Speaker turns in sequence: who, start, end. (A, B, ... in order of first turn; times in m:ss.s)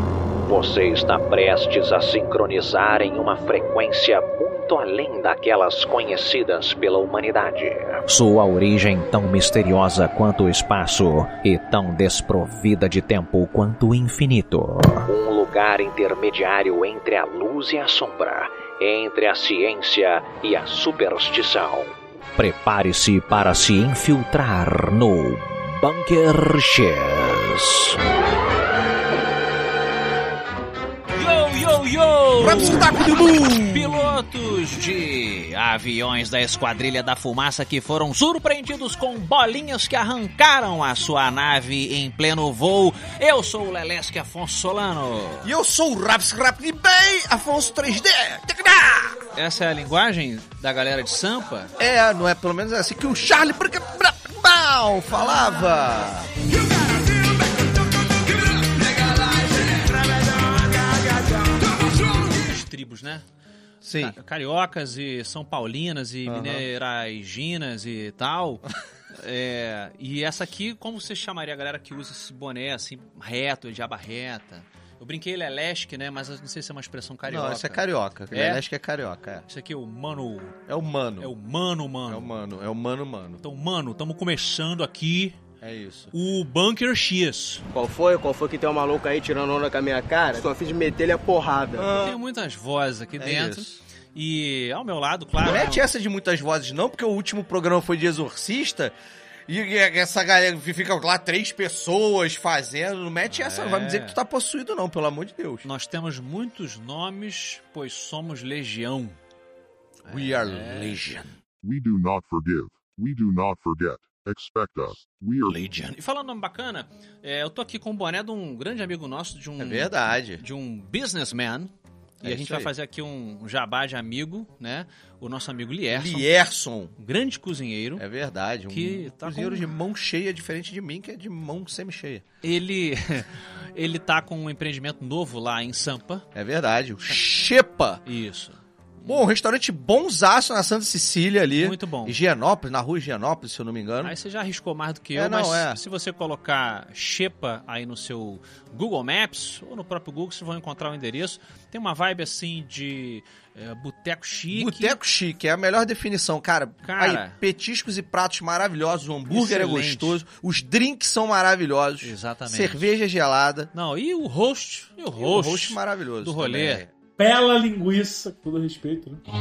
0:00.5-0:28.0 A
0:31.1-0:33.0 B
0:32.4-0:34.2 C
0:33.6-0:45.5 B
0:45.4-0:49.2 C
0:49.4-0:51.7 B
0:51.8-0:56.4 C
1:01.9-1:03.2 B
1:03.8-1:04.2 C
1:04.0-1:18.6 B
1:06.2-1:06.7 C
1:17.3-1:19.4 C
1:19.5-1:20.6 B
1:20.7-1:21.3 C
1:21.2-1:22.3 B
1:22.1-1:23.4 C
1:23.4-1:25.4 B
1:25.6-1:26.1 C
1:26.1-1:27.6 B
1:27.7-1:31.9 D
1:31.8-1:32.2 C
1:31.9-1:35.9 B
1:33.2-1:33.8 C
1:35.4-1:39.0 C
1:39.5-1:45.7 C
1:43.3-1:44.2 B
1:45.6-1:49.2 B
1:50.0-1:51.3 B
1:50.1-1:51.3 C
1:51.6-1:55.6 E
1:55.5-2:06.3 B
1:59.6-2:00.4 C
2:02.2-2:02.7 C
2:05.9-2:07.0 C
2:07.0-2:08.0 B
2:08.0-2:12.2 C
2:08.7-2:09.7 B
2:12.4-2:16.3 B
2:16.3-2:18.0 C
2:18.0-2:19.2 B
2:19.1-2:24.2 C
2:21.5-2:22.2 B
2:24.0-2:35.0 B
2:25.1-2:25.8 C
2:34.5-2:43.7 C
2:36.8-2:37.4 B
2:39.3-2:40.2 B
2:42.0-2:42.9 B
2:43.7-2:46.8 B
2:45.2-2:46.9 C
2:47.2-2:49.2 F